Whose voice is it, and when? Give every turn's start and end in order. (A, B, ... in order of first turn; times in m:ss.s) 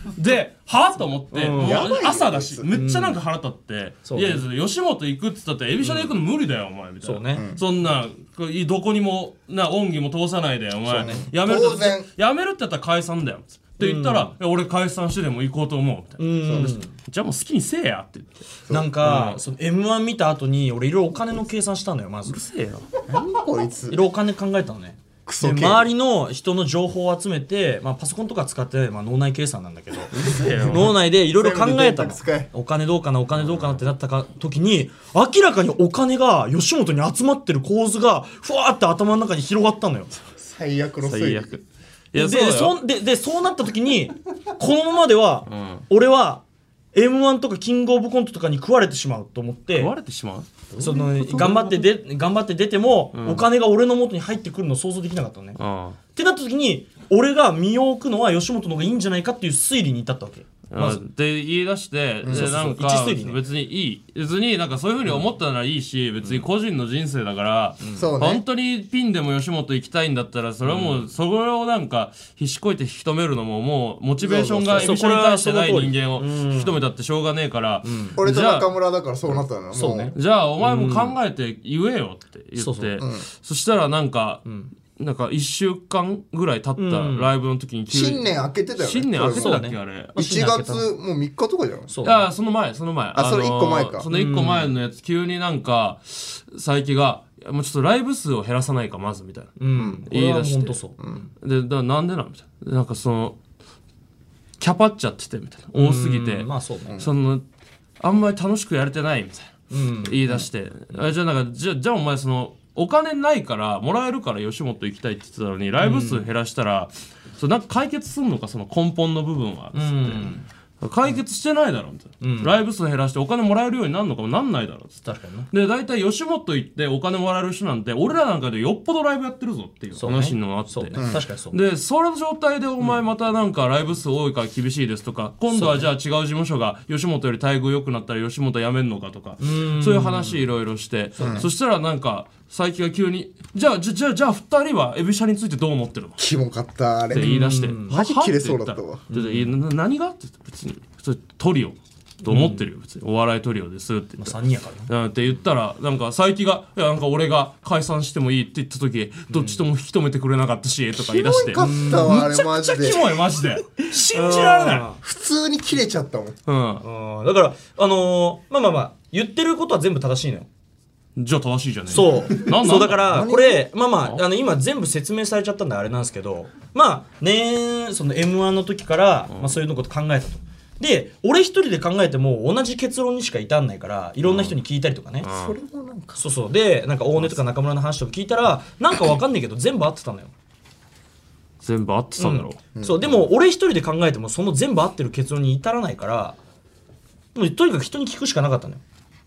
0:00.1-0:16.3 A
0:01.3-0:01.9 B
0:01.6-0:02.7 C
0:02.7-0:03.2 B
0:04.0-0:04.4 B
0:05.8-0:06.2 B
0:07.0-0:07.5 B
0:07.4-0:07.6 C
0:10.9-0:12.1 C
0:10.9-0:11.2 B
0:13.8-0:14.3 B
0:16.2-0:16.9 B
0:16.4-0:16.8 C
0:17.0-0:19.4 A
0:18.7-0:22.4 B
0:22.3-0:22.9 A
0:23.0-0:24.0 C
0:23.9-0:40.2 B
0:25.3-0:25.9 C
0:30.1-0:31.0 A
0:31.2-0:32.5 C
0:33.4-0:33.8 A
0:40.4-0:41.6 C
0:41.0-0:42.8 A
0:42.2-0:49.9 B
0:45.5-0:45.9 A
0:49.7-0:51.8 A
0:50.8-0:51.6 C
0:50.8-0:55.6 B
0:53.1-0:53.5 A
0:55.6-0:56.0 A
0:56.2-1:01.0 B
1:00.7-1:18.7 A
1:02.2-1:02.5 C
1:02.3-1:03.4 B
1:08.0-1:08.4 C
1:10.6-1:11.1 B
1:14.2-1:15.0 C
1:14.8-1:16.8 B
1:17.8-1:18.2 B
1:18.2-1:20.2 C
1:19.7-1:21.2 B
1:20.2-1:24.4 A
1:22.6-1:23.0 B
1:23.0-1:23.2 C
1:24.4-1:24.7 B
1:25.0-1:30.1 A
1:26.8-1:27.3 B
1:27.9-1:29.5 C
1:29.3-1:30.9 B
1:30.2-1:31.9 C
1:31.9-1:32.3 B
1:32.0-1:39.6 A
1:33.2-1:34.1 C
1:34.1-1:34.7 B
1:39.6-1:41.3 B
1:39.8-1:40.0 C
1:40.1-1:40.8 A
1:41.4-1:43.4 A
1:44.6-1:47.4 A
1:45.8-1:47.1 B
1:48.0-2:05.0 A
1:49.7-1:50.2 B
1:55.8-1:56.3 B
1:59.7-2:00.5 B
2:02.2-2:02.6 B
2:05.0-2:05.5 B
2:05.5-2:26.2 A
2:10.0-2:11.6 B
2:11.0-2:11.2 C
2:15.5-2:15.9 B
2:19.4-2:20.4 B
2:21.2-2:21.5 C
2:26.2-2:27.4 C
2:27.1-2:28.0 B
2:27.1-2:34.4 A
2:27.9-2:29.0 C
2:29.1-2:29.5 B
2:32.2-2:32.7 B
2:34.2-2:34.9 B
2:34.9-2:44.9 A
2:39.3-2:39.6 B
2:40.9-2:43.0 C
2:41.5-2:42.5 B
2:43.8-2:45.0 B
2:45.0-2:46.4 C
2:46.5-2:46.8 A
2:46.8-2:50.5 B
2:51.2-2:53.3 A
2:51.9-3:05.3 B
2:52.6-2:53.6 C
2:59.3-2:59.6 A
3:04.2-3:04.6 A
3:05.2-3:05.6 A
3:05.3-3:06.2 C
3:06.2-3:10.3 B
3:11.6-3:12.6 A
3:12.2-3:16.4 B
3:12.8-3:13.3 C
3:17.4-3:18.8 B